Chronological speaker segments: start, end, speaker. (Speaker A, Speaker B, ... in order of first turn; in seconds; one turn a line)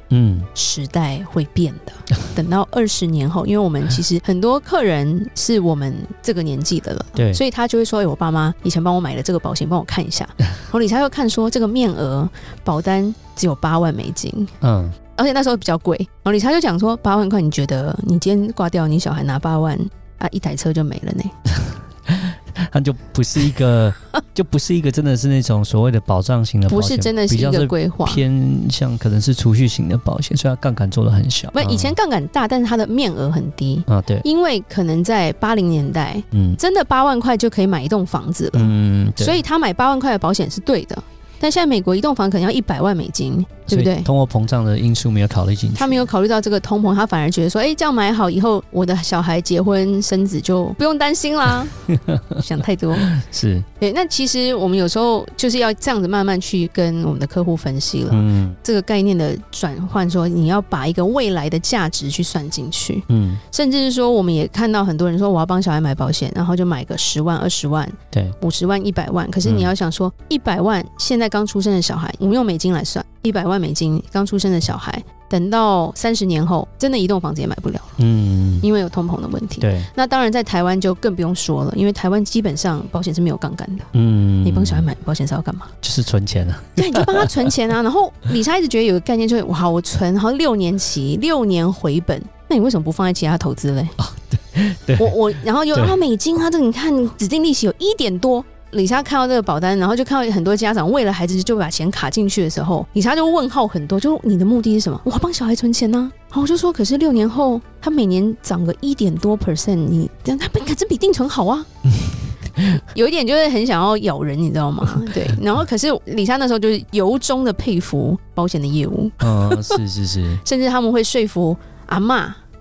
Speaker A: 0.1-0.5
Speaker B: 0.6-14.5
Speaker A: 7.2-7.4
Speaker A: 14.6-15.0
Speaker B: 15.2-21.3
Speaker A: 22.1-32.0
Speaker B: 26.7-28.2
Speaker B: 31.5-44.1
Speaker A: 33.9-34.2
Speaker A: 36.3-36.6
Speaker A: 38.5-39.4
Speaker A: 43.7-46.1
Speaker B: 45.8-53.1
Speaker A: 53.0-53.7
Speaker B: 53.8-78.0
Speaker A: 58.1-58.6
Speaker A: 63.1-63.4
Speaker A: 69.4-69.7
Speaker A: 78.0-78.7
Speaker B: 78.6-83.9
Speaker A: 79.6-79.9
Speaker A: 83.9-84.9
Speaker B: 84.4-85.7
Speaker A: 85.8-87.5
Speaker B: 86.8-94.0
Speaker A: 94.0-95.2
Speaker B: 95.0-111.7
Speaker B: 112.7-119.8
Speaker A: 119.2-120.4
Speaker B: 120.4-122.4